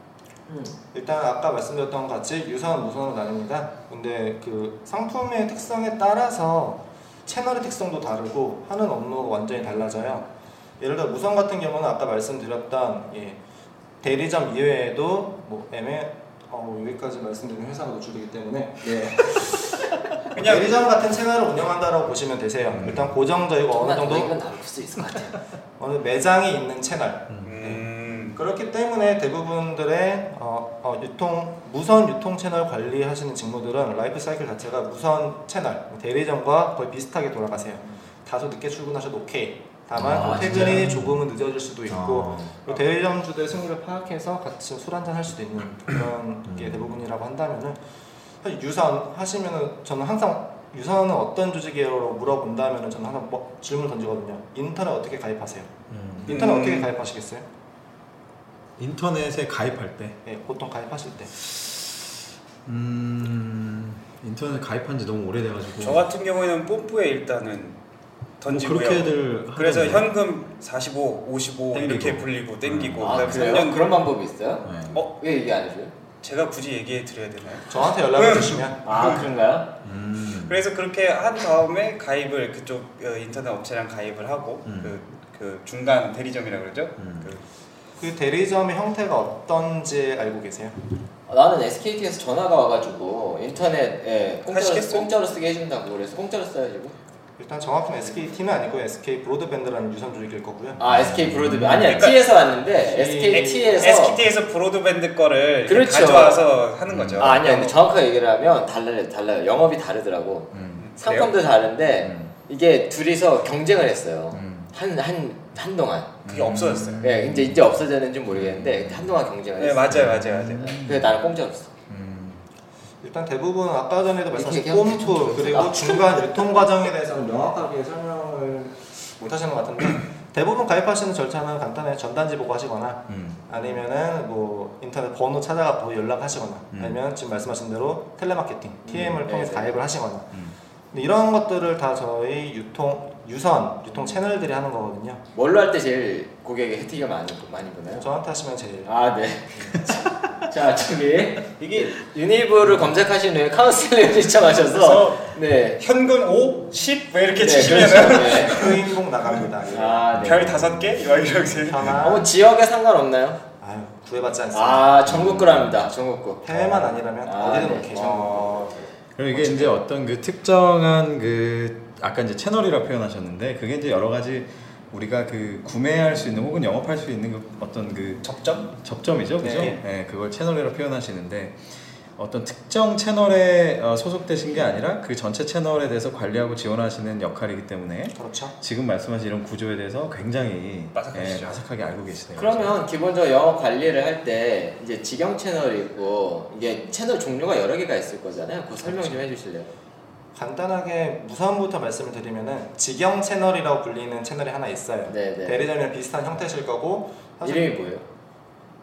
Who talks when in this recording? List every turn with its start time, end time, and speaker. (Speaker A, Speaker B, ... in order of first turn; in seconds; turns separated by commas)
Speaker A: 0.5-0.8, Speaker B: 0.9-10.3, Speaker B: 10.8-13.4, Speaker B: 14.0-24.3, Speaker C: 20.3-20.8, Speaker D: 22.7-23.2, Speaker A: 23.7-25.4, Speaker B: 25.8-27.8, Speaker D: 27.3-27.6, Speaker C: 27.4-28.4, Speaker B: 28.4-47.8, Speaker D: 40.0-41.2, Speaker A: 40.0-41.0, Speaker D: 41.9-42.5, Speaker D: 46.5-47.0, Speaker B: 48.4-55.7, Speaker D: 55.9-56.5, Speaker B: 56.2-57.5, Speaker C: 56.3-56.9, Speaker D: 58.8-60.2, Speaker B: 60.3-61.3, Speaker D: 62.6-66.1, Speaker C: 65.8-67.8, Speaker C: 68.4-73.9, Speaker D: 68.5-70.2, Speaker D: 71.7-73.5, Speaker A: 73.0-75.9, Speaker D: 74.6-75.0, Speaker C: 76.2-79.2, Speaker B: 77.7-78.8, Speaker A: 78.8-79.7, Speaker D: 79.8-80.6, Speaker C: 80.3-87.4, Speaker D: 84.7-85.0, Speaker D: 87.0-87.3, Speaker B: 88.0-90.8, Speaker A: 91.3-97.0, Speaker C: 94.5-95.1, Speaker B: 97.4-100.8, Speaker A: 100.8-104.2, Speaker D: 100.9-102.1, Speaker C: 101.9-102.3, Speaker B: 102.9-104.0, Speaker C: 103.3-107.8, Speaker A: 105.7-106.5, Speaker D: 106.9-107.4, Speaker A: 107.2-116.1, Speaker D: 110.5-110.9, Speaker C: 110.8-111.3, Speaker D: 112.0-112.3, Speaker D: 114.3-114.7, Speaker D: 116.2-119.2, Speaker C: 116.3-117.1, Speaker A: 117.0-121.7, Speaker C: 119.6-120.8, Speaker D: 119.9-121.2, Speaker D: 121.9-122.4, Speaker B: 123.0-140.4, Speaker A: 124.3-126.2, Speaker D: 133.1-133.4, Speaker D: 136.7-137.0, Speaker A: 138.9-139.8, Speaker B: 140.9-145.2, Speaker A: 145.3-148.1, Speaker B: 148.0-148.9, Speaker A: 148.8-155.8, Speaker C: 151.6-151.9, Speaker C: 154.7-158.9, Speaker A: 157.4-158.7, Speaker B: 157.9-160.1, Speaker A: 159.7-160.7, Speaker D: 160.1-160.8, Speaker C: 160.2-162.0, Speaker B: 161.5-162.3, Speaker A: 162.0-163.4, Speaker B: 163.6-165.0, Speaker A: 164.5-169.7, Speaker D: 165.1-165.8, Speaker B: 166.4-168.8, Speaker D: 169.2-181.6, Speaker B: 169.4-169.7, Speaker C: 178.2-178.7, Speaker B: 179.4-179.8, Speaker D: 182.2-192.8, Speaker B: 188.2-188.6, Speaker C: 190.9-191.6, Speaker A: 192.4-199.7, Speaker B: 198.9-199.1, Speaker B: 200.3-207.8, Speaker A: 205.1-205.6, Speaker A: 207.4-208.0